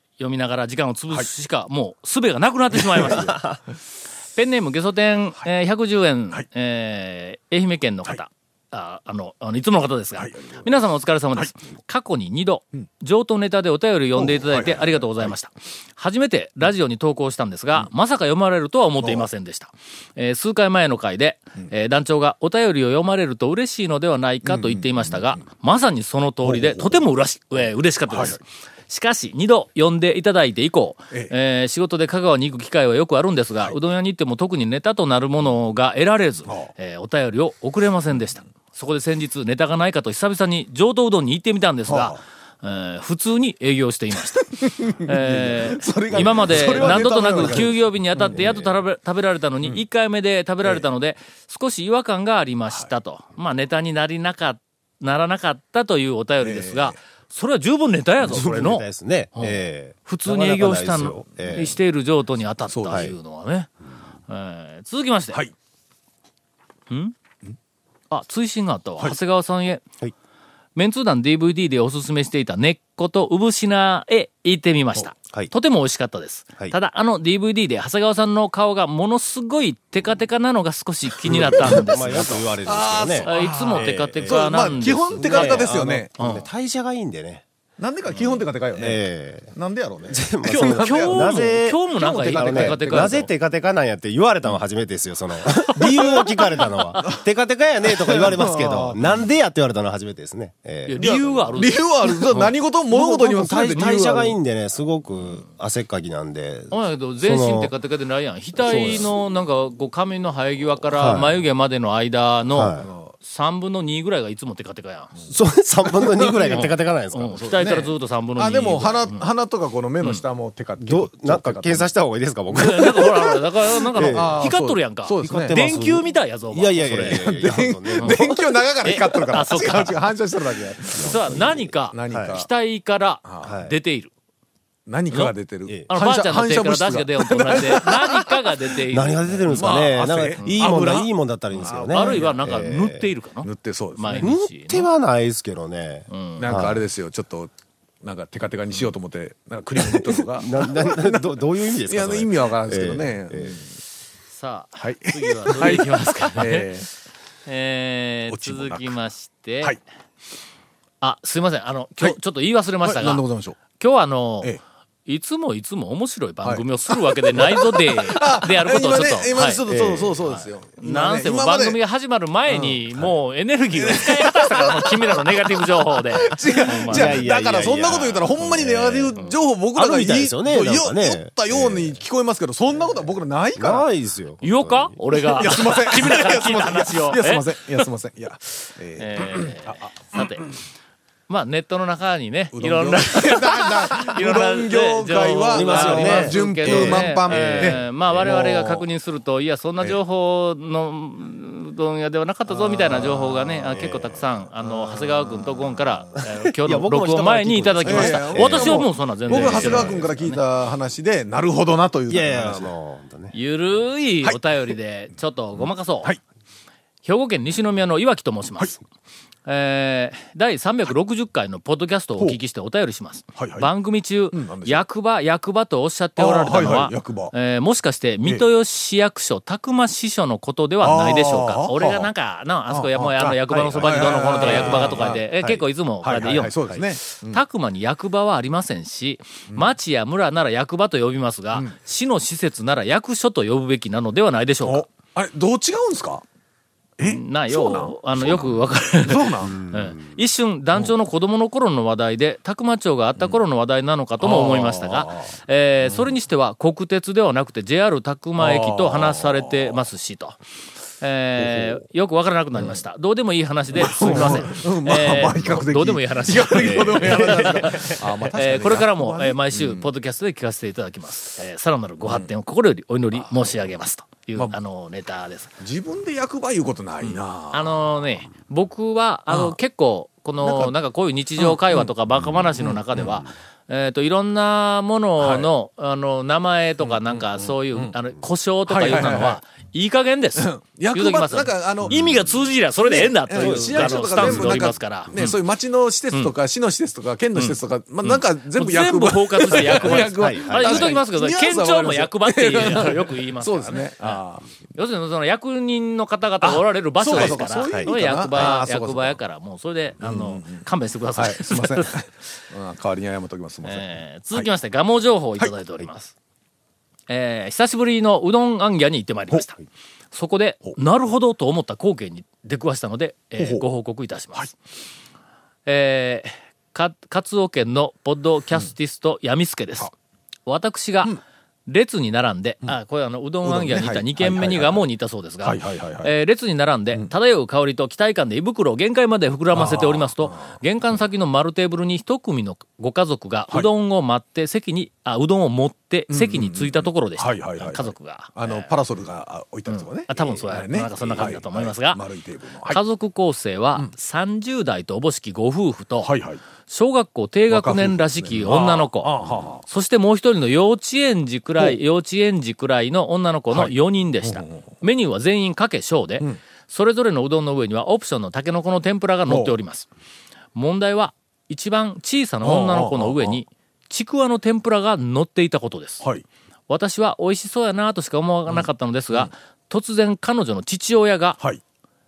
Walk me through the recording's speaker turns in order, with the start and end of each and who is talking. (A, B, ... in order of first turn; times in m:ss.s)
0:00.2-0:03.4 A
0:02.7-0:03.5 B
0:04.4-1:03.7 A
0:10.2-0:10.6 B
0:14.2-0:15.3 B
0:19.0-0:19.3 B
0:24.4-0:25.4 B
0:26.4-0:27.0 B
0:28.1-0:28.4 B
0:41.9-0:42.2 B
0:44.4-0:48.5 B
0:46.1-0:47.7 C
0:48.3-0:48.7 C
0:56.4-0:57.0 B
0:58.2-1:01.8 C
1:02.7-1:03.1 B
1:04.3-1:05.4 A
1:06.9-1:07.1 A
1:08.1-1:09.8 A
1:10.8-1:22.5 A
1:21.3-1:26.1 B
1:21.3-1:27.4 C
1:23.2-1:26.4 A
1:27.8-1:33.2 B
1:28.8-1:29.5 C
1:30.1-1:41.6 C
1:30.4-1:33.3 A
1:35.8-1:37.2 B
1:37.8-1:39.1 B
1:40.9-1:41.8 A
1:41.0-1:44.4 B
1:42.3-1:47.7 C
1:46.7-1:55.1 A
1:48.6-1:49.1 C
1:50.9-1:51.3 C
1:52.5-1:52.9 C
1:52.8-1:53.1 B
1:55.3-1:57.4 C
1:55.9-1:56.7 B
1:56.5-1:59.2 A
1:57.4-2:01.9 B
2:00.8-2:03.3 C
2:02.6-2:07.2 A
2:03.9-2:04.4 C
2:04.1-2:05.6 B
2:05.2-2:08.4 C
2:06.9-2:12.5 B
2:08.8-2:10.0 A
2:10.9-2:12.4 C
2:11.0-2:14.1 A
2:13.2-2:13.5 B
2:13.4-2:13.8 C
2:14.9-2:18.5 B
2:15.9-2:19.8 A
2:18.9-2:23.1 C
2:19.5-2:22.4 B
2:20.4-2:20.7 A
2:21.9-2:24.9 A
2:23.4-2:24.3 B
2:24.2-2:26.8 C
2:26.1-2:26.5 A
2:26.4-2:27.5 B
2:28.0-2:33.7 B
2:30.4-2:33.6 C
2:34.3-2:36.7 A
2:34.8-2:36.9 B
2:37.5-2:39.8 A
2:38.3-2:39.0 B
2:41.0-2:44.5 A
2:42.8-2:43.6 B
2:45.1-2:49.6 A
2:46.4-2:51.8 B
2:49.7-2:50.1 C
2:50.2-2:57.3 A
2:52.5-2:53.0 B
2:53.7-3:03.9 B
2:56.7-2:59.2 C
2:59.8-3:02.0 C
3:03.6-3:05.0 C
3:04.4-3:07.8 A
3:05.3-3:10.5 B
3:09.0-3:10.5 A
3:11.3-3:30.4 A
3:12.5-3:18.8 B
3:15.5-3:18.3 C
3:22.6-3:23.4 B
3:26.5-3:30.1 C
3:27.8-3:32.7 B
3:32.1-3:33.3 C
3:33.3-3:36.2 A
3:37.0-3:38.8 A
3:39.5-4:04.9 A
3:43.4-3:43.7 B
3:44.3-3:44.8 B
3:46.2-3:47.3 B
3:50.8-3:52.1 B
3:52.7-3:55.3 B
3:53.2-3:55.5 C
3:56.0-3:57.4 B
4:04.6-4:06.2 B
4:07.0-4:09.6 B
4:07.0-4:20.4 A
4:09.5-4:10.1 C
4:14.2-4:16.1 B
4:18.4-4:19.8 B
4:21.0-4:35.5 A
4:21.4-4:21.8 B
4:23.7-4:29.9 B
4:26.6-4:28.0 C
4:35.6-4:37.9 B
4:37.0-4:55.4 A
4:39.3-4:39.6 B
4:40.4-4:40.8 B
4:41.4-4:41.9 B
4:42.6-4:43.2 B
4:45.2-4:45.5 B
4:46.8-4:47.9 B
4:48.7-4:49.4 B
4:50.4-4:52.0 B
4:52.8-5:04.4 B
4:53.4-4:54.6 C
4:57.4-5:04.2 A
4:59.9-5:01.0 C
5:04.8-5:11.9 A
5:06.4-5:09.2 B
5:10.0-5:14.5 B
5:13.6-5:16.1 A
5:17.1-5:19.6 A
5:20.1-5:24.5 A
5:23.4-5:23.6 B
5:25.6-5:29.9 A
5:30.5-5:48.7 A
5:33.4-5:34.8 B
5:35.4-5:36.1 B
5:39.5-5:40.6 B
5:46.1-5:52.8 B
5:49.7-5:52.0 A
5:52.7-5:56.1 A
5:56.0-5:56.4 B
5:56.7-5:59.1 A
5:57.5-5:59.6 B
5:59.6-6:09.9 A
6:03.5-6:04.8 B
6:09.3-6:09.5 B
6:10.5-6:16.1 A
6:12.4-6:13.4 B
6:16.7-6:21.4 A
6:18.5-6:19.3 B